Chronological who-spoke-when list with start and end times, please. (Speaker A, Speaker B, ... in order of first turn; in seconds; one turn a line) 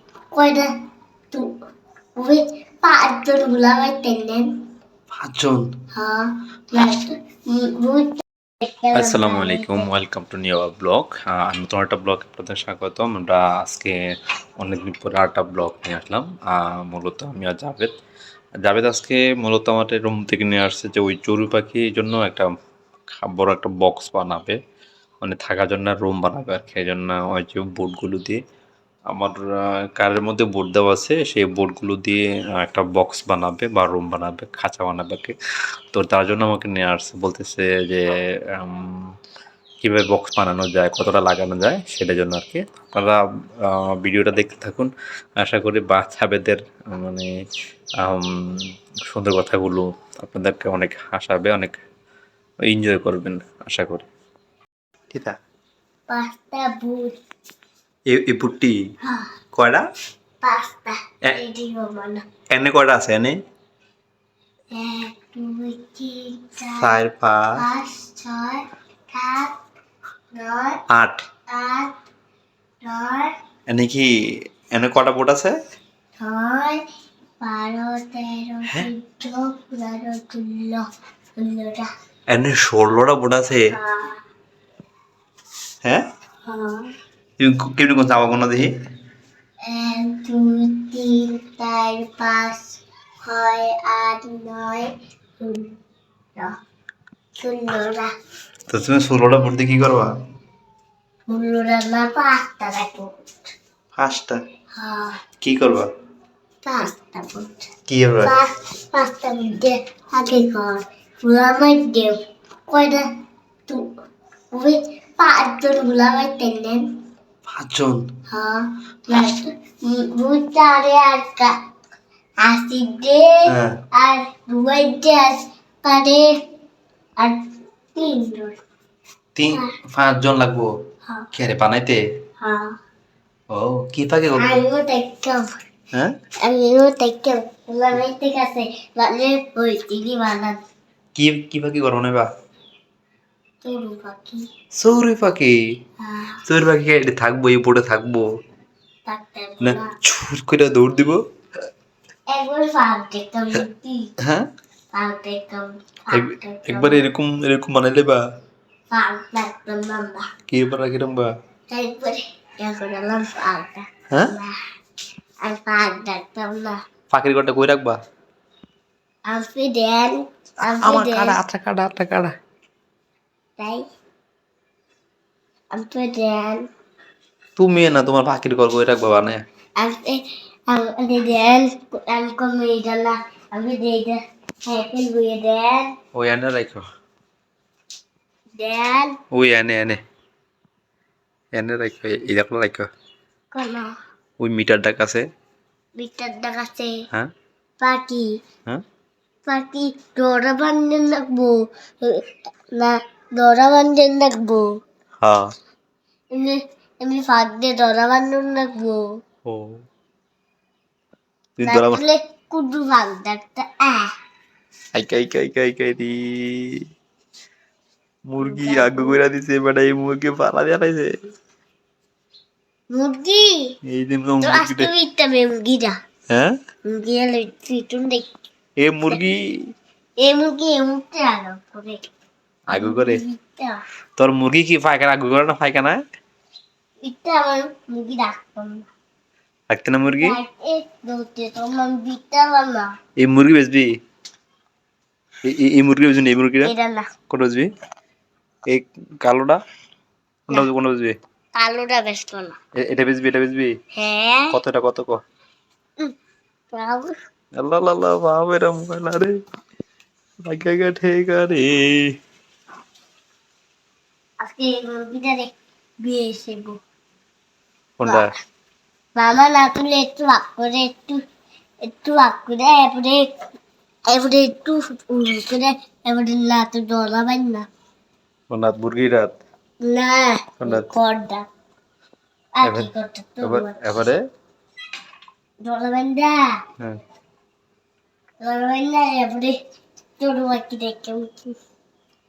Speaker A: 0.3-0.7
Speaker A: 2.2-4.5
Speaker B: 5.1-5.7
Speaker A: 5.9-9.9
Speaker B: 8.9-14.0
Speaker B: 14.6-17.9
Speaker B: 18.6-22.5
Speaker B: 23.1-24.6
Speaker B: 25.2-28.4
Speaker B: 29.1-29.4
Speaker B: 29.9-35.3
Speaker B: 35.9-39.0
Speaker B: 39.8-47.3
Speaker B: 48.0-48.6
Speaker B: 49.1-51.8
Speaker B: 52.6-54.1
Speaker A: 56.1-57.1
Speaker B: 58.1-58.8
Speaker A: 59.0-59.3
Speaker B: 59.5-59.8
Speaker A: 60.4-62.2
Speaker B: 62.5-63.4
Speaker A: 64.7-67.0
Speaker B: 66.8-67.6
Speaker A: 67.5-69.5
Speaker A: 70.3-70.8
Speaker B: 70.9-71.2
Speaker A: 71.5-71.9
Speaker A: 72.8-73.3
Speaker B: 73.7-74.1
Speaker B: 74.7-75.5
Speaker A: 76.2-76.8
Speaker A: 77.4-80.8
Speaker A: 81.4-81.9
Speaker B: 82.3-83.7
Speaker A: 83.7-84.2
Speaker A: 86.4-86.9
Speaker B: 87.4-88.7
Speaker A: 89.7-95.8
Speaker A: 97.4-98.1
Speaker B: 98.7-100.1
Speaker A: 101.3-103.5
Speaker B: 104.0-104.4
Speaker A: 104.7-105.2
Speaker B: 105.4-105.9
Speaker A: 106.6-107.7
Speaker B: 107.9-108.3
Speaker A: 108.2-113.0
Speaker A: 114.5-116.8
Speaker B: 117.5-118.0
Speaker A: 118.3-121.5
Speaker A: 122.4-126.3
Speaker B: 123.5-123.7
Speaker A: 127.2-128.5
Speaker B: 129.3-130.7
Speaker B: 131.3-132.0
Speaker A: 132.4-132.8
Speaker B: 133.5-134.6
Speaker A: 134.4-135.5
Speaker A: 136.4-140.6
Speaker B: 141.1-142.3
Speaker A: 143.6-144.4
Speaker B: 144.8-145.5
Speaker A: 146.0-146.4
Speaker B: 146.4-148.2
Speaker A: 149.1-149.9
Speaker B: 149.6-151.2
Speaker A: 152.3-154.1
Speaker B: 154.2-154.4
Speaker A: 154.9-157.0
Speaker B: 156.1-158.2
Speaker A: 158.9-160.3
Speaker B: 160.5-161.3
Speaker A: 161.7-164.5
Speaker A: 165.4-166.8
Speaker B: 167.1-168.0
Speaker A: 169.3-171.4
Speaker B: 170.6-172.3
Speaker A: 175.7-176.6
Speaker B: 177.6-179.4
Speaker A: 179.8-185.9
Speaker B: 186.1-186.8
Speaker A: 188.6-189.2
Speaker B: 189.3-190.0
Speaker B: 191.5-192.9
Speaker A: 193.5-193.9
Speaker B: 194.4-195.2
Speaker A: 195.9-196.9
Speaker A: 197.8-198.3
Speaker A: 199.4-204.7
Speaker B: 205.2-205.5
Speaker A: 206.3-209.0
Speaker B: 209.4-209.8
Speaker B: 211.6-212.0
Speaker A: 211.6-214.1
Speaker B: 214.9-216.8
Speaker B: 218.3-221.1
Speaker A: 218.4-219.2
Speaker A: 222.9-223.6
Speaker B: 223.9-224.9
Speaker A: 224.4-225.9
Speaker A: 226.9-228.3
Speaker B: 228.8-229.4
Speaker A: 230.2-232.0
Speaker B: 232.7-233.2
Speaker A: 232.7-233.8
Speaker B: 234.2-236.0
Speaker A: 237.0-238.8
Speaker B: 239.7-240.4
Speaker A: 240.2-242.9
Speaker B: 243.2-243.9
Speaker B: 245.4-246.7
Speaker A: 246.6-247.1
Speaker B: 247.3-247.7
Speaker B: 248.7-249.6
Speaker B: 250.5-251.1
Speaker A: 251.6-252.6
Speaker B: 252.8-253.7
Speaker A: 253.9-254.5
Speaker B: 254.5-255.2
Speaker A: 256.7-257.1
Speaker B: 257.6-259.3
Speaker B: 260.4-262.1
Speaker A: 264.4-265.5
Speaker A: 266.0-266.8
Speaker B: 268.0-268.3
Speaker A: 269.1-271.2
Speaker A: 271.9-273.2
Speaker A: 274.1-277.6
Speaker B: 278.5-279.4
Speaker A: 279.8-281.4
Speaker B: 280.6-280.9
Speaker A: 282.6-283.8
Speaker B: 282.6-282.9
Speaker B: 283.4-284.2
Speaker A: 285.6-286.4
Speaker A: 288.4-289.5
Speaker A: 290.2-291.3